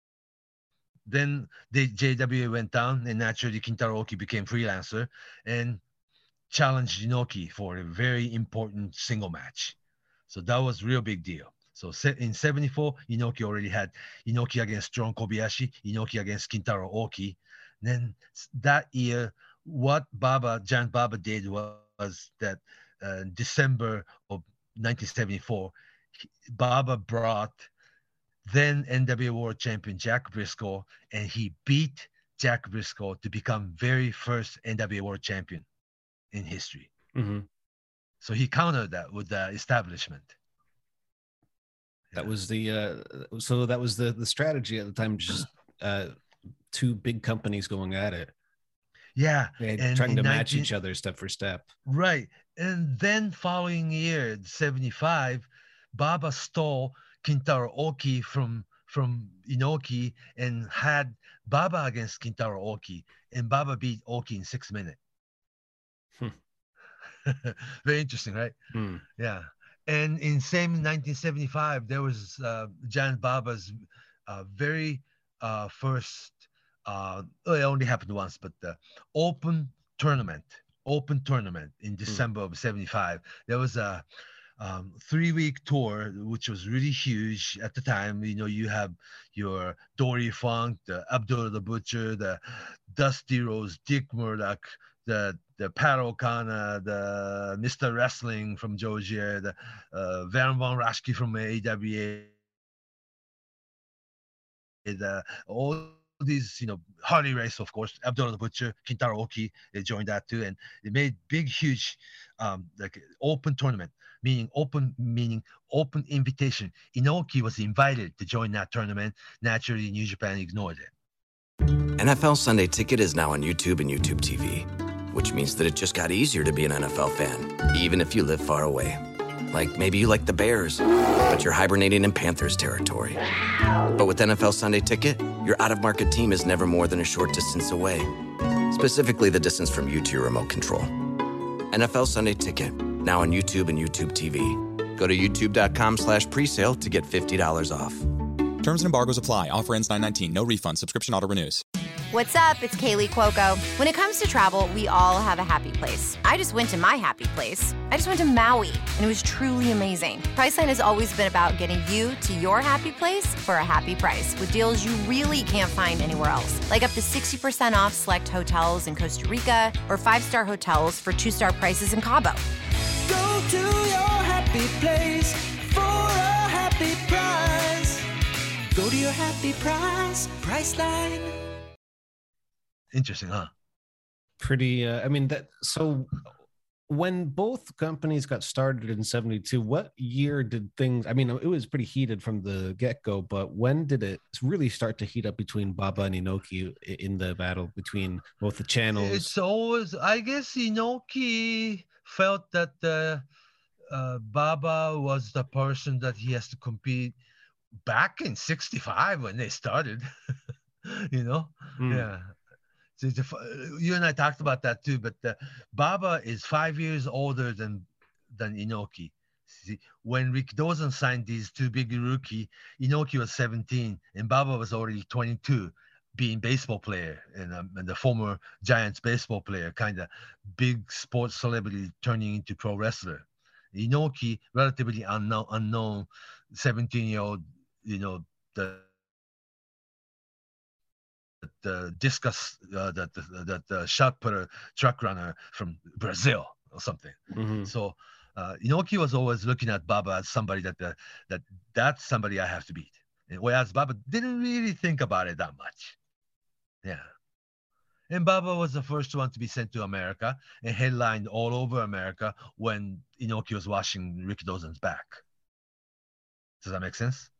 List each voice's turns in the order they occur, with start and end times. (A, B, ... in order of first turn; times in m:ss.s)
0:01.1-0:05.8 A
0:06.5-0:09.8 A
0:10.3-0:25.7 A
0:26.4-0:27.7 A
0:28.4-0:35.6 A
0:36.3-0:36.9 A
0:37.1-0:37.5 B
0:38.2-0:40.3 A
0:42.2-0:46.1 B
0:46.7-0:48.3 B
0:49.2-0:50.7 A
0:49.6-0:51.7 B
0:51.9-1:05.0 A
1:07.2-1:08.5 A
1:08.7-1:09.0 B
1:09.2-1:24.0 A
1:24.6-1:42.3 A
1:44.8-2:00.9 A
2:02.0-2:13.2 C
2:13.9-2:18.1 C
2:18.7-2:20.9 C
2:21.7-2:28.1 C
2:28.6-2:31.6 D
2:32.1-2:52.4 E
2:53.0-2:58.0 F
2:58.7-3:01.4 F
3:02.9-3:03.5 A
3:04.4-3:06.2 B
3:06.9-3:19.3 B
3:19.0-3:23.2 A
3:23.9-3:27.2 A
3:27.8-3:30.1 A
3:30.8-3:32.3 A
3:31.8-3:32.1 B
3:33.0-3:58.9 A
4:01.4-4:16.0 A
4:07.3-4:07.7 B
4:18.1-4:25.2 A
4:26.6-4:27.3 A